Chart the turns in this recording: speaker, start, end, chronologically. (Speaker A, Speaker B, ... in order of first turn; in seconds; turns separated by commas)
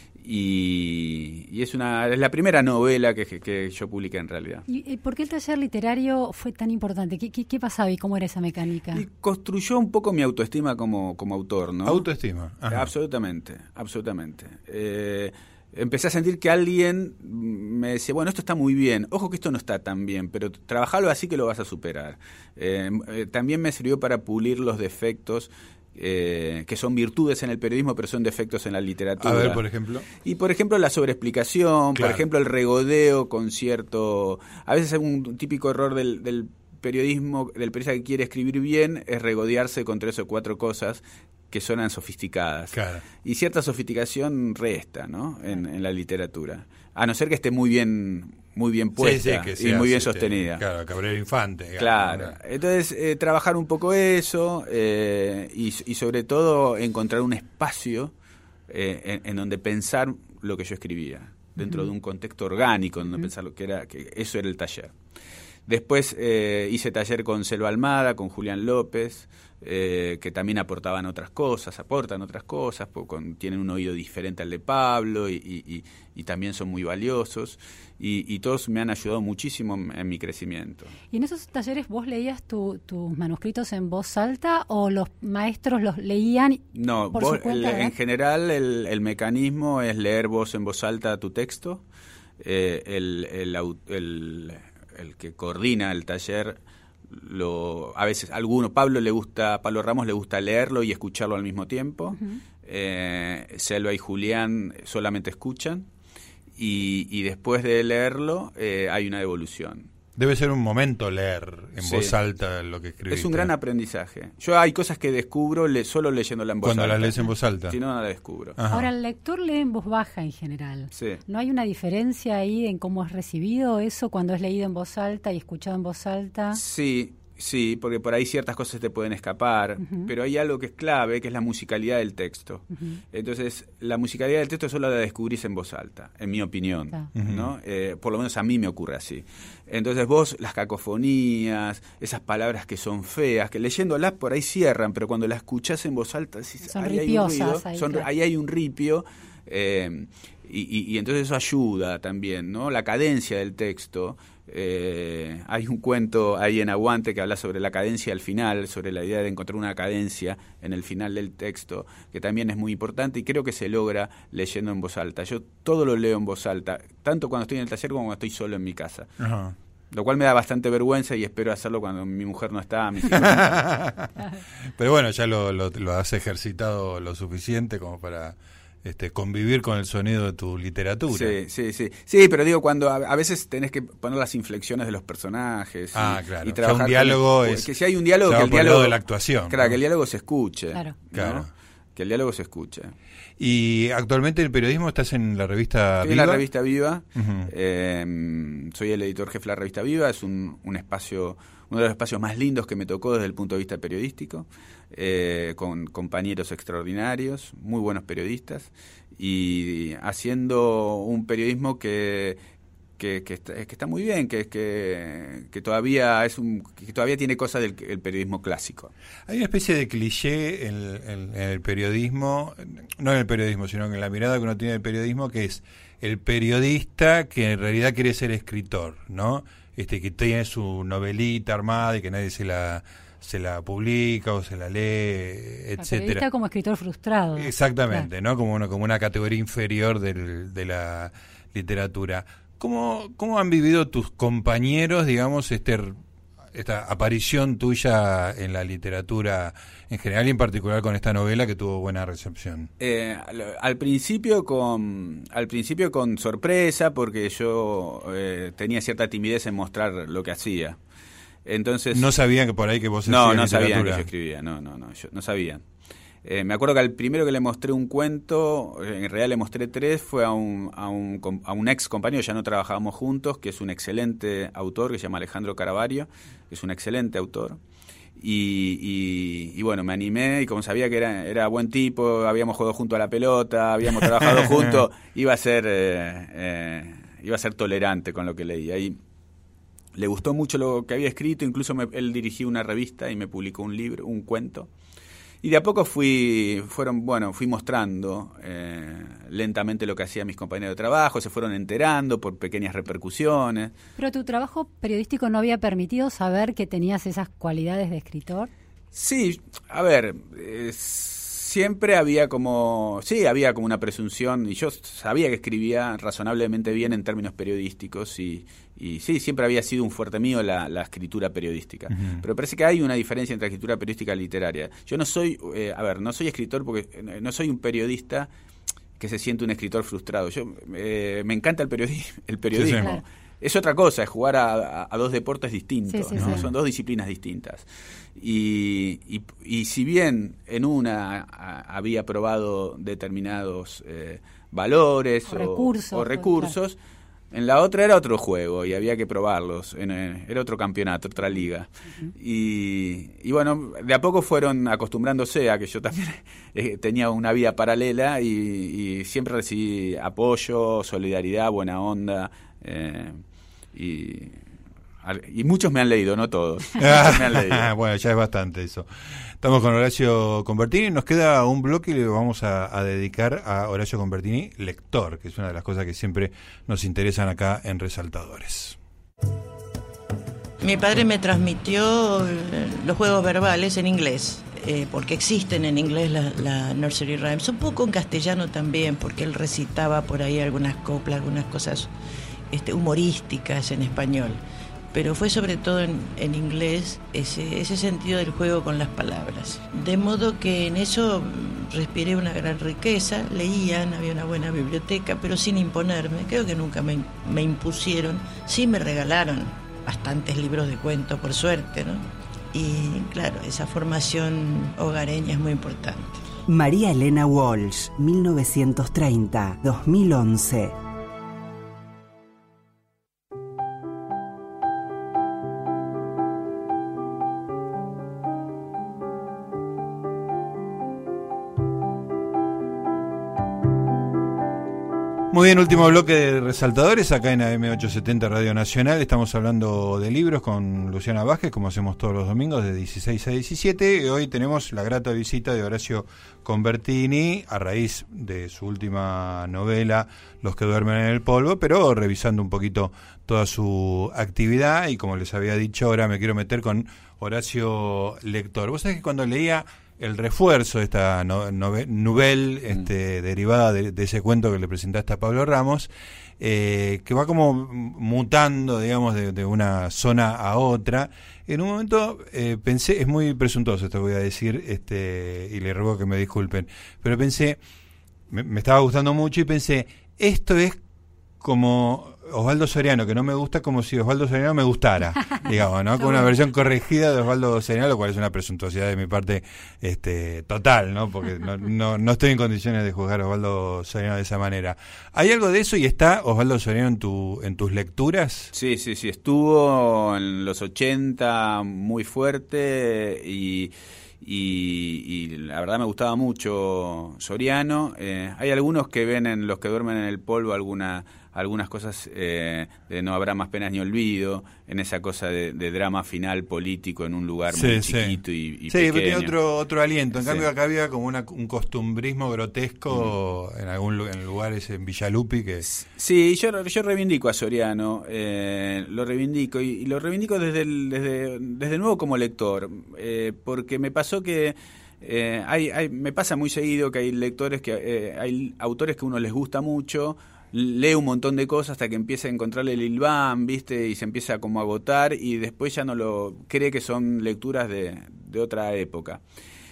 Speaker A: 0.2-4.6, Speaker B: 4.7-9.0, Speaker A: 8.9-12.1, Speaker C: 11.8-12.9, Speaker A: 12.7-29.6, Speaker C: 29.2-30.1, Speaker A: 30.2-50.6, Speaker C: 31.9-32.2, Speaker C: 42.7-43.0, Speaker C: 49.0-52.3, Speaker A: 51.8-58.1, Speaker A: 58.7-64.9, Speaker A: 65.7-80.9, Speaker B: 81.1-86.6, Speaker A: 86.7-91.8, Speaker B: 87.1-87.9, Speaker A: 92.4-105.9, Speaker A: 106.6-109.9, Speaker C: 110.2-113.5, Speaker A: 111.8-112.1, Speaker A: 113.1-118.6, Speaker C: 116.6-117.8, Speaker C: 118.6-118.9, Speaker B: 118.7-126.6, Speaker A: 120.9-121.2, Speaker A: 126.5-169.1, Speaker C: 137.2-137.5, Speaker B: 146.6-148.1, Speaker C: 169.2-169.5, Speaker A: 169.9-173.6, Speaker C: 173.1-174.1, Speaker C: 174.8-181.3, Speaker A: 181.1-192.9, Speaker C: 185.9-187.7, Speaker C: 188.2-189.8, Speaker C: 191.1-191.5, Speaker C: 193.4-196.4, Speaker A: 196.0-212.4, Speaker C: 197.2-197.5, Speaker A: 213.0-218.9, Speaker C: 219.3-236.2, Speaker B: 235.8-238.1, Speaker C: 237.3-246.0, Speaker C: 246.5-252.7, Speaker A: 252.8-260.8, Speaker A: 261.4-262.1, Speaker C: 261.9-264.1, Speaker A: 263.1-265.6, Speaker A: 266.2-277.6, Speaker A: 278.2-289.0, Speaker A: 289.9-294.7, Speaker A: 295.4-303.7, Speaker B: 304.0-308.5, Speaker A: 308.9-328.3, Speaker C: 321.9-322.2, Speaker A: 329.0-346.8, Speaker C: 332.5-332.9, Speaker B: 332.8-333.0, Speaker B: 335.9-336.5, Speaker C: 336.1-336.4, Speaker B: 345.3-346.5, Speaker A: 347.3-363.2, Speaker A: 363.7-364.4, Speaker A: 365.0-367.7, Speaker C: 366.8-368.9, Speaker C: 369.4-378.8, Speaker D: 380.6-391.9, Speaker D: 392.5-394.4, Speaker D: 394.9-416.2, Speaker E: 416.5-420.8, Speaker C: 435.3-477.6, Speaker C: 478.3-480.8, Speaker C: 481.4-498.5, Speaker A: 498.5-519.3, Speaker C: 517.5-518.2, Speaker C: 518.7-525.6, Speaker A: 520.1-520.5, Speaker A: 525.6-549.2